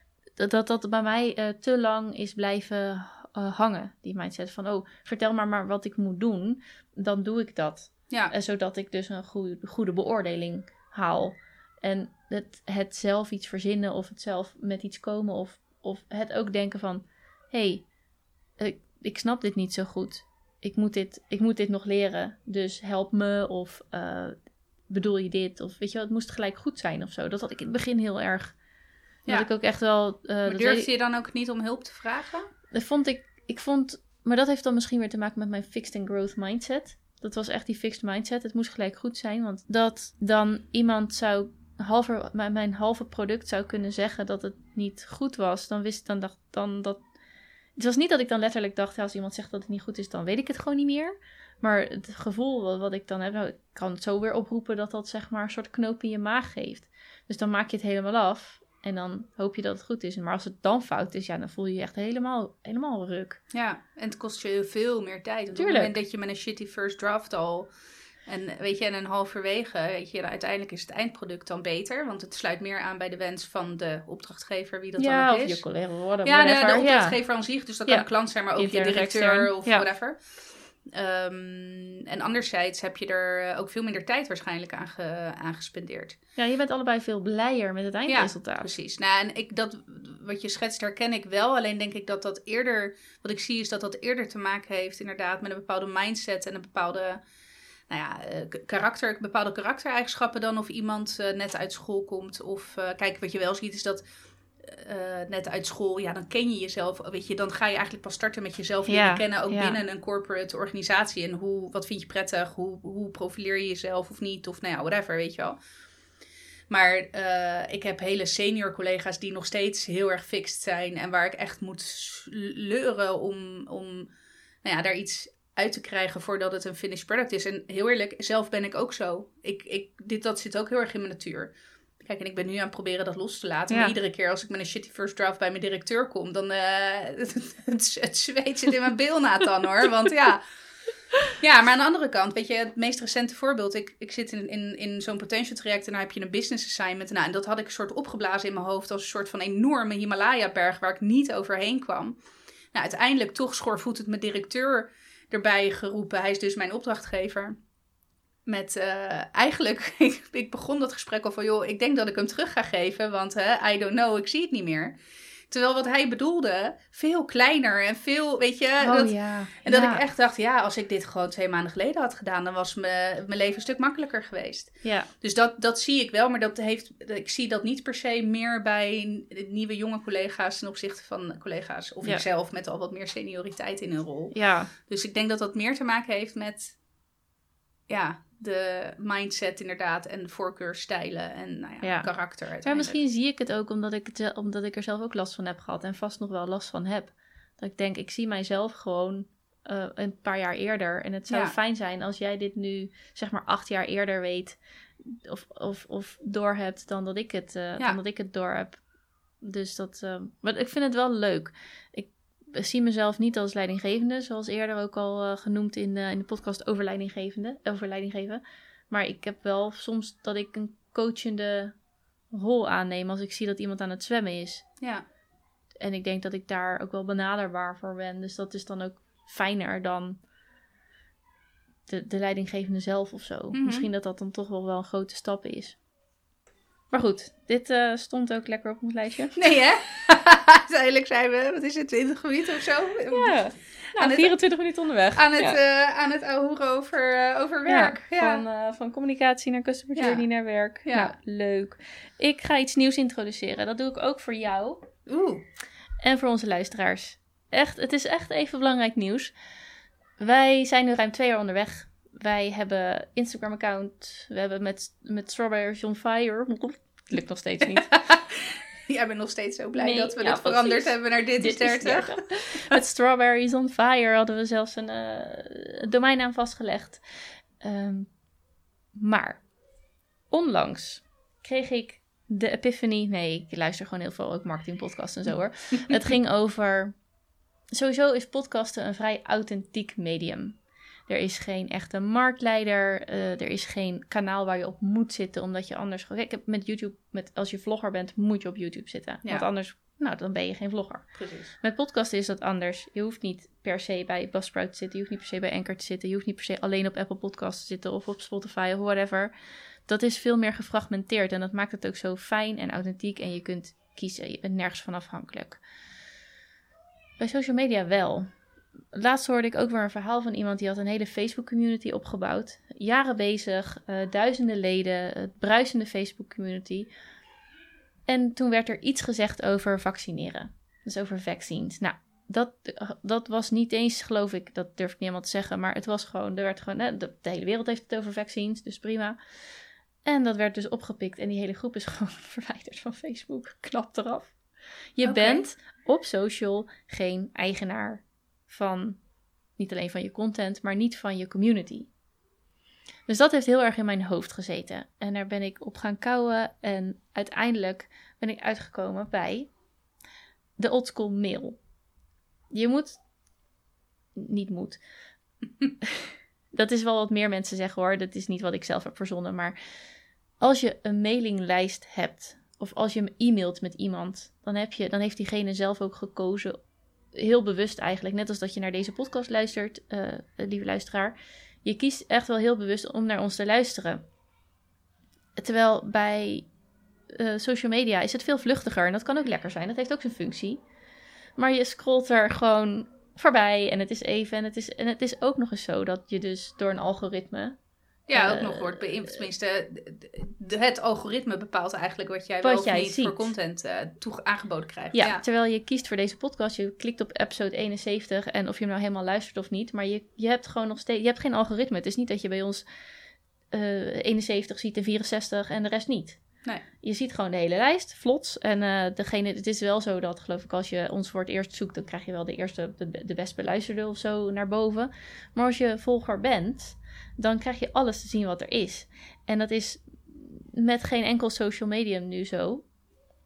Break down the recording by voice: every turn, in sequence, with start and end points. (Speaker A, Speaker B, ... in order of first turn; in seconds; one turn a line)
Speaker A: 0.4-17.9
Speaker A: 18.6-24.4
Speaker A: 24.9-28.6
Speaker A: 29.3-30.9
Speaker B: 30.5-32.5
Speaker A: 32.7-47.0
Speaker A: 47.8-63.4
Speaker B: 63.5-67.7
Speaker A: 65.5-66.0
Speaker B: 68.3-75.7
Speaker A: 75.0-77.2
Speaker B: 76.2-86.2
Speaker A: 77.9-79.8
Speaker A: 86.4-88.7
Speaker B: 88.1-97.2
Speaker B: 97.9-104.0
Speaker B: 104.6-115.6
Speaker A: 108.9-109.8
Speaker B: 116.7-124.1
Speaker B: 124.6-140.4
Speaker A: 133.7-133.9
Speaker B: 141.3-152.2
Speaker B: 152.7-157.6
Speaker B: 158.5-164.9
Speaker B: 165.5-186.8
Speaker A: 168.8-170.0
Speaker A: 174.8-175.1
Speaker A: 184.3-184.7
Speaker B: 187.9-193.0
Speaker A: 191.8-208.8
Speaker B: 201.3-201.6
Speaker A: 209.4-221.7
Speaker A: 222.3-224.7
Speaker A: 225.8-230.2
Speaker A: 231.9-235.8
Speaker B: 233.5-233.9
Speaker A: 236.9-239.4
Speaker B: 239.3-244.3
Speaker A: 243.1-245.6
Speaker B: 245.2-248.4
Speaker A: 247.7-254.8
Speaker B: 249.9-250.3
Speaker B: 250.8-251.1
Speaker B: 255.1-255.4
Speaker A: 256.0-259.3
Speaker A: 260.2-267.9
Speaker B: 267.9-272.8
Speaker A: 269.8-277.0
Speaker A: 277.6-278.1
Speaker A: 278.9-279.4
Speaker A: 280.3-286.9
Speaker A: 287.7-309.3
Speaker B: 301.1-301.5
Speaker A: 309.9-315.6
Speaker A: 317.2-318.3
Speaker A: 318.9-326.9
Speaker A: 328.1-339.2
Speaker A: 340.1-344.4
Speaker A: 344.9-349.0
Speaker B: 345.0-345.5
Speaker A: 349.6-351.9
Speaker A: 353.1-359.5
Speaker A: 360.6-361.6
Speaker A: 362.5-363.0
Speaker A: 364.1-364.8
Speaker A: 365.8-369.6
Speaker A: 370.4-376.6
Speaker A: 377.1-384.0
Speaker A: 385.4-386.5
Speaker A: 387.1-390.6
Speaker A: 391.4-397.6
Speaker B: 398.1-405.2
Speaker A: 398.1-398.9
Speaker A: 402.4-403.3
Speaker A: 404.9-412.6
Speaker A: 413.5-416.2
Speaker A: 416.8-432.7